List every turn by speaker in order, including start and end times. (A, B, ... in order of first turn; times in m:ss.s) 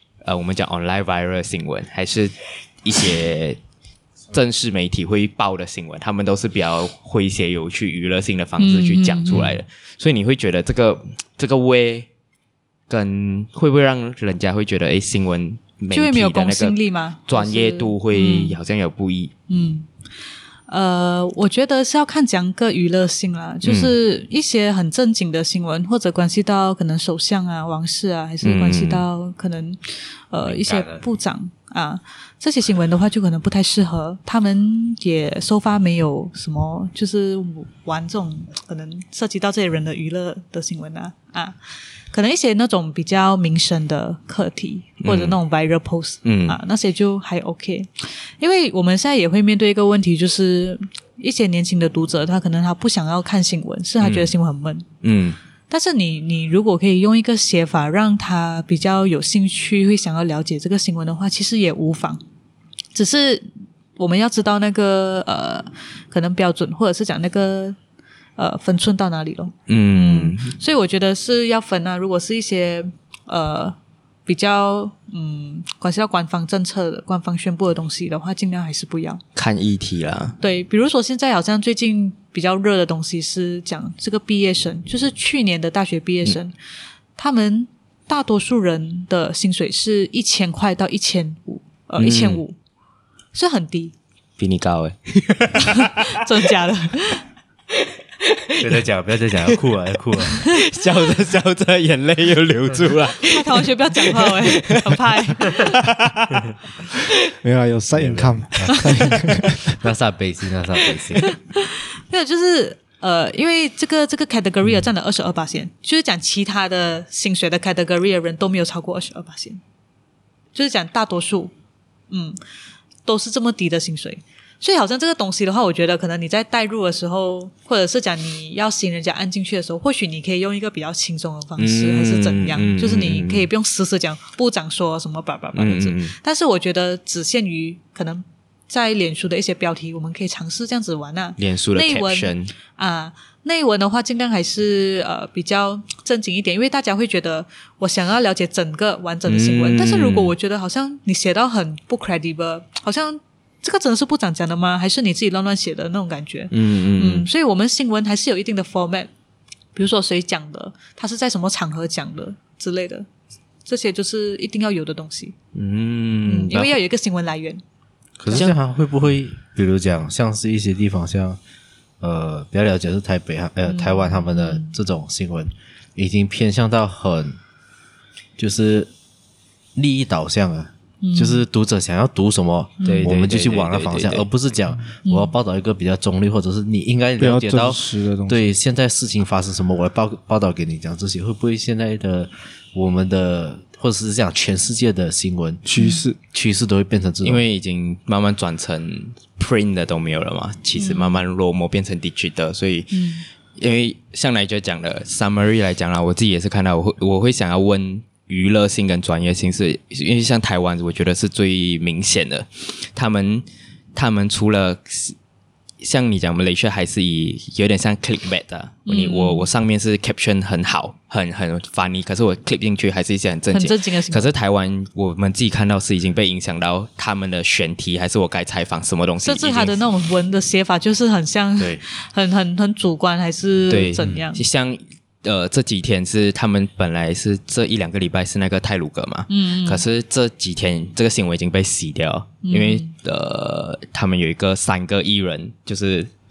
0:00.2-0:03.6 A
0:04.3-0:12.1 A
0:08.6-0:09.6 B
0:12.9-0:16.8 A
0:15.9-0:18.6 B
0:17.3-0:19.3 A
0:19.5-0:19.9 B
0:20.7-0:41.6 B
0:23.6-0:23.9 A
0:28.4-0:29.0 A
0:30.4-0:31.0 C
0:42.1-0:54.8 B
0:45.0-0:45.4 A
0:46.2-0:46.6 A
0:54.0-0:54.3 A
0:55.0-0:55.4 A
0:55.7-1:02.2 B
1:02.9-1:07.8 B
1:08.4-1:19.2 B
1:09.7-1:10.6 A
1:19.4-1:20.4 A
1:20.4-1:26.5 B
1:27.2-1:32.6 B
1:32.0-1:32.4 A
1:33.3-1:33.9 B
1:34.4-1:36.3 A
1:35.6-1:37.2 B
1:38.2-1:38.8 A
1:38.6-1:40.3 C
1:40.2-1:46.5 A
1:43.2-1:45.9 B
1:47.4-1:49.8 D
1:48.0-1:49.1 C
1:48.7-1:49.2 A
1:49.8-1:51.4 C
1:51.2-1:59.6 B
2:00.5-2:01.5 B
2:02.1-2:02.4 B
2:03.0-2:39.1 B
2:11.6-2:13.5 A
2:15.5-2:16.2 A
2:21.4-2:22.5 A
2:29.3-2:30.3 A
2:36.5-2:37.3 A
2:39.8-2:43.1 B
2:43.6-2:45.3 B
2:45.5-2:46.8 A
2:46.2-2:47.6 B
2:48.2-2:51.4 C
2:48.3-2:48.5 A
2:52.0-2:57.4 C
2:53.6-2:54.7 B
2:58.4-2:58.9 C
2:59.7-3:15.6 C
3:01.0-3:01.4 B
3:02.8-3:03.1 B
3:02.8-3:04.2 A
3:05.0-3:05.3 B
3:07.2-3:08.4 D
3:15.6-3:16.2 D
3:15.8-3:16.0 B
3:16.3-3:17.4 C
3:17.2-3:35.2 A
3:20.8-3:21.2 B
3:22.9-3:23.2 B
3:35.8-3:49.7 A
3:38.8-3:39.5 B
3:43.5-3:44.3 B
3:49.2-3:54.4 B
3:51.6-3:51.8 C
3:53.7-4:06.1 A
3:59.3-3:59.8 B
4:02.4-4:02.9 B